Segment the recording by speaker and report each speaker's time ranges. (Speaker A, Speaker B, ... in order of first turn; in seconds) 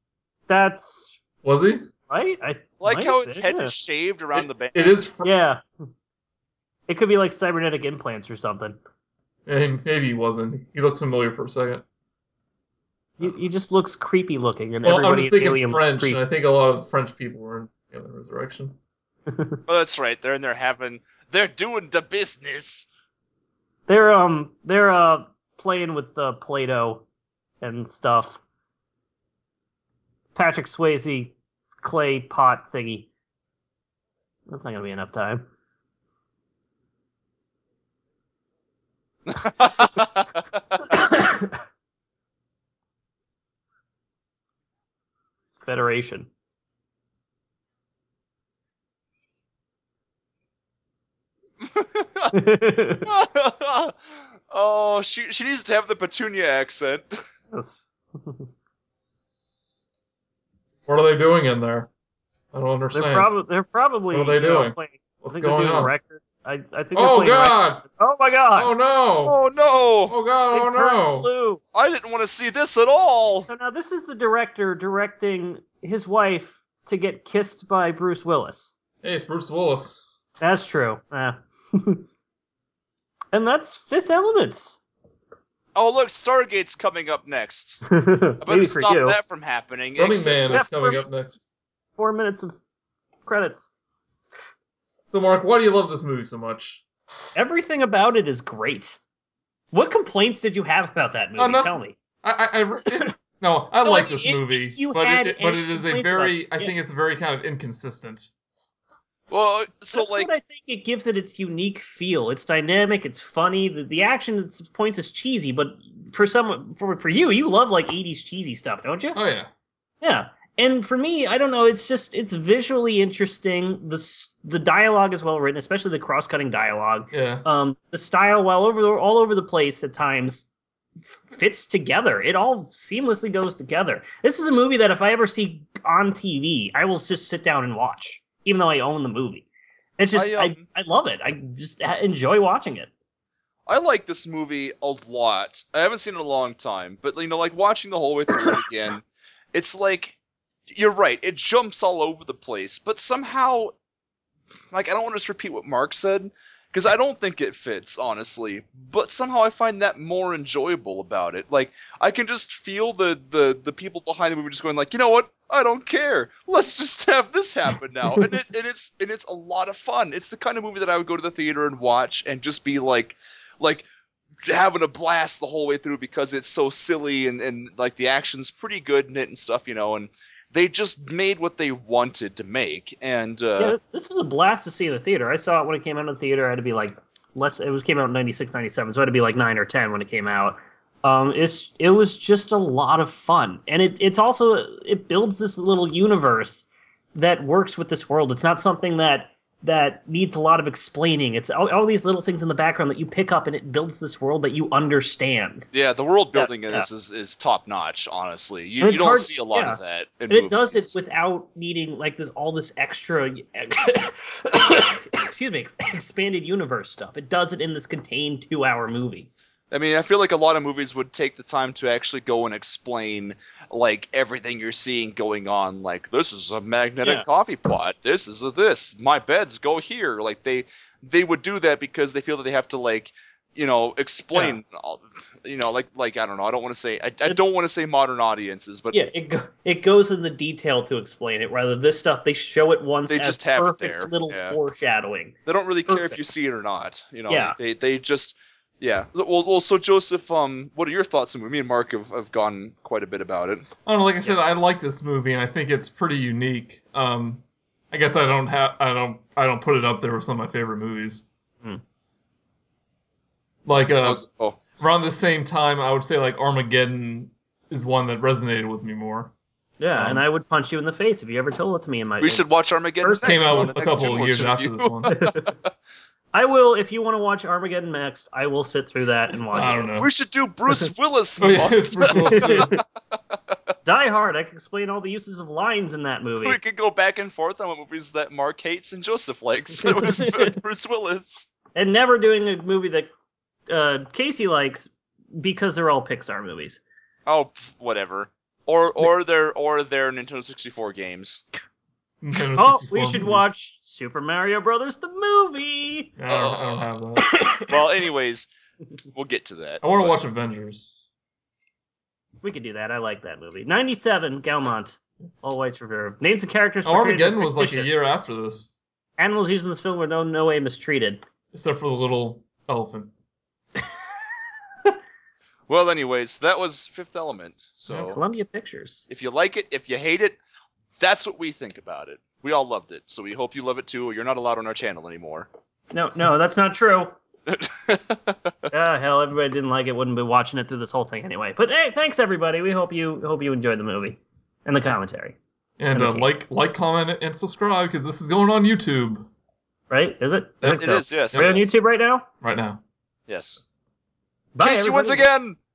Speaker A: 0.5-1.2, 2.1-3.7, 5.2-5.6, 6.9-8.8, 13.2-16.2, 19.3-19.6, 23.9-27.1, 27.6-28.4, 30.4-33.1, 34.5-35.5, 40.9-41.5, 45.6-46.3, 52.3-53.0, 57.5-58.5, 62.9-68.7, 70.5-71.6, 73.5-78.7, 80.4-82.0, 83.3-84.8, 87.9-89.2, 90.5-91.0, 92.0-92.5, 93.3-93.7, 97.3-99.0, 99.7-102.0, 103.8-106.7, 109.9-119.2, 120.0-130.5, 131.3-139.5, 140.0-142.9, 183.6-205.7, 206.3-206.9, 208.8-219.3, 234.3-234.6, 238.9-245.4, 245.9-246.2, 247.3-247.6, 269.8-272.4, 273.0-273.8, 275.1-275.5, 276.3-280.0, 282.1-282.8, 283.9-286.6, 289.8-290.5, 291.8-293.1, 293.7-296.8, 302.5-306.1, 307.2-307.7, 312.4-318.0, 319.2-321.2, 327.9-329.0, 335.9-337.2, 338.7-345.4, 345.9-346.3, 349.9-352.3, 354.5-355.3
Speaker B: 1.4-1.9, 4.3-5.3, 9.5-11.8, 14.8-18.8, 60.9-61.9, 62.5-63.3, 64.1-65.9, 66.9-67.8, 68.5-69.4, 70.1-71.3, 79.0-80.1, 90.0-91.5, 95.1-96.8, 101.4-108.3, 119.1-119.5, 127.1-127.5, 253.8-261.3, 263.6-264.2, 264.8-269.3, 270.0-270.2, 273.2-275.1, 279.5-280.1, 281.4-282.7, 302.2-303.5, 306.2-307.4, 309.8-311.0, 316.9-318.8, 321.5-323.1, 345.8-349.3, 351.3-351.6, 352.4-352.8
Speaker C: 2.8-5.0, 19.7-22.9, 39.3-40.8, 51.6-52.3, 53.1-54.0, 54.5-57.2, 69.2-70.2, 71.7-73.5, 85.8-87.8, 88.4-90.5, 109.3-110.3, 140.1-140.7, 143.7-150.2, 150.7-153.7, 154.7-173.9, 174.4-183.8, 205.7-210.9, 219.7-239.0, 243.1-244.6, 245.5-253.7, 264.0-264.6, 272.2-275.6, 280.0-282.8, 286.4-291.5, 297.3-301.4, 306.3-306.8, 307.7-308.5, 309.1-310.2, 325.7-328.2, 329.1-330.4, 331.0-335.5, 337.5-338.7, 350.6-351.7, 353.3-353.6, 354.6-355.6